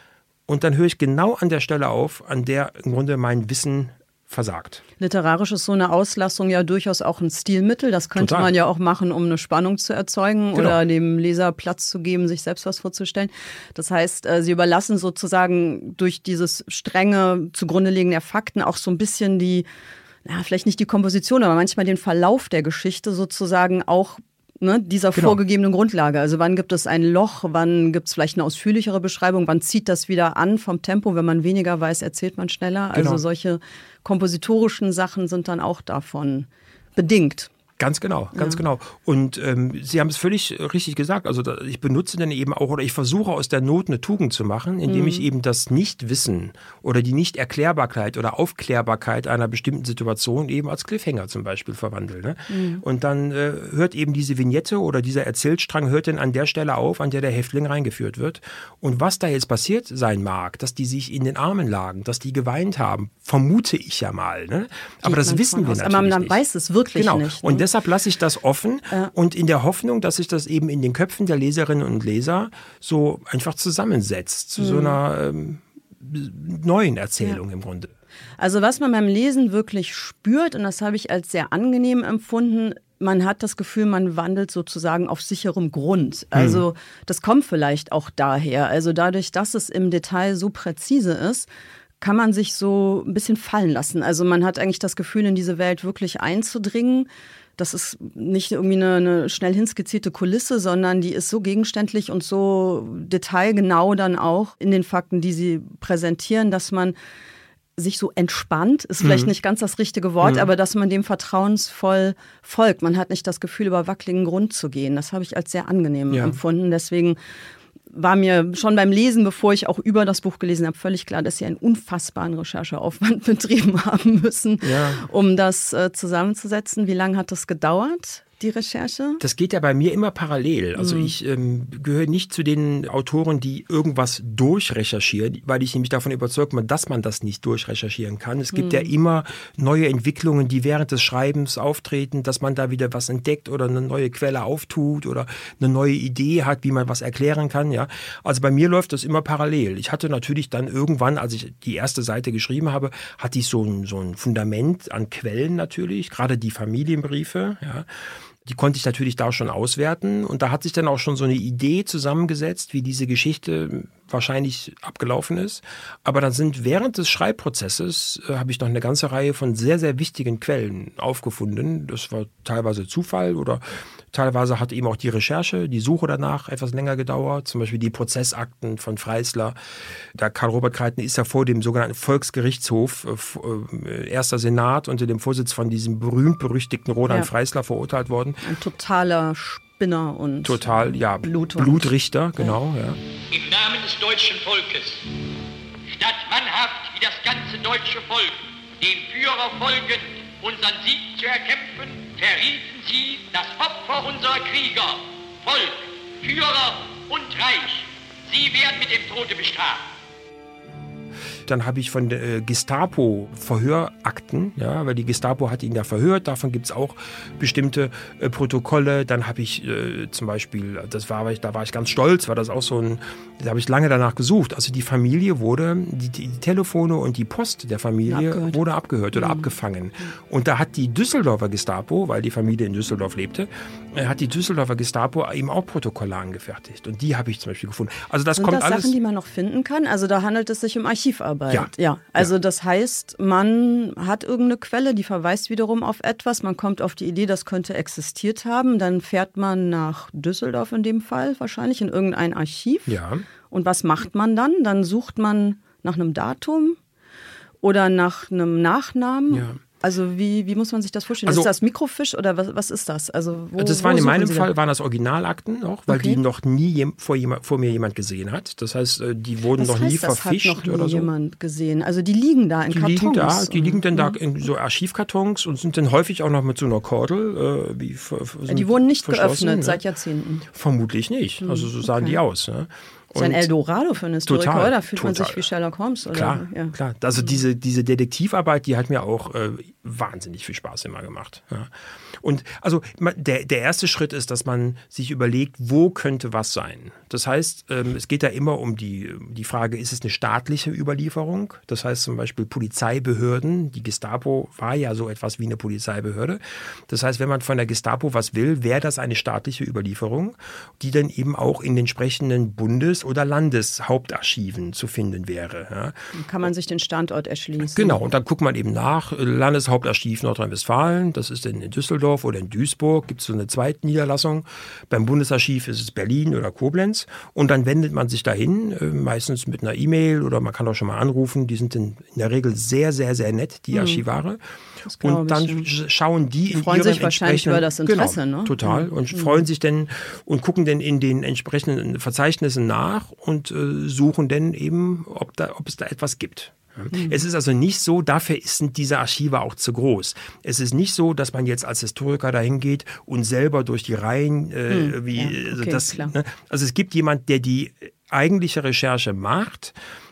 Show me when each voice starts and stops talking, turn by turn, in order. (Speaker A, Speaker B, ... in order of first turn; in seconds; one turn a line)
Speaker A: 0.5-4.8
Speaker B: 5.0-19.6
Speaker A: 8.2-8.5
Speaker B: 20.2-37.5
Speaker A: 32.9-33.2
Speaker A: 37.8-66.4
Speaker B: 38.3-38.6
Speaker B: 44.9-45.2
Speaker B: 52.5-52.8
Speaker B: 65.0-67.7
Speaker A: 67.0-77.9
Speaker B: 74.6-75.0
Speaker B: 78.4-91.5
Speaker A: 86.3-86.6
Speaker B: 92.0-106.9
Speaker B: 107.8-117.2
Speaker A: 109.0-109.3
Speaker A: 110.2-110.5
Speaker A: 116.1-116.4
Speaker B: 117.9-129.2
Speaker A: 124.6-125.0
Speaker A: 129.2-157.9
Speaker B: 130.8-131.1
Speaker B: 138.5-138.9
Speaker A: 158.4-179.6
Speaker A: 180.1-188.4
Speaker B: 188.4-190.6
Speaker A: 190.4-193.0
Speaker B: 191.2-192.6
Speaker C: 193.3-195.1
Speaker C: 195.9-209.8
Speaker A: 211.5-238.9
Speaker B: 228.1-228.6
Speaker B: 229.1-229.5
Speaker B: 238.3-253.0
Speaker A: 241.5-242.3
Speaker A: 252.9-253.2
Speaker B: 253.5-256.8
Speaker B: 257.6-264.5
Speaker A: 259.3-259.6
Speaker A: 261.2-261.5
Speaker A: 263.6-271.1
Speaker B: 265.9-266.2
Speaker B: 269.6-274.2
Speaker A: 272.7-279.8
Speaker B: 278.5-280.4
Speaker A: 280.5-283.5
Speaker B: 281.4-282.2
Speaker B: 283.1-286.7
Speaker A: 284.3-285.4
Speaker A: 286.1-316.1
Speaker B: 316.1-318.0
Speaker A: 317.7-334.4
Speaker B: 333.7-334.0
Speaker B: 334.9-335.6
Speaker A: 335.0-359.7
Speaker B: 336.5-339.4
Speaker B: 346.9-347.2
Speaker B: 354.7-356.1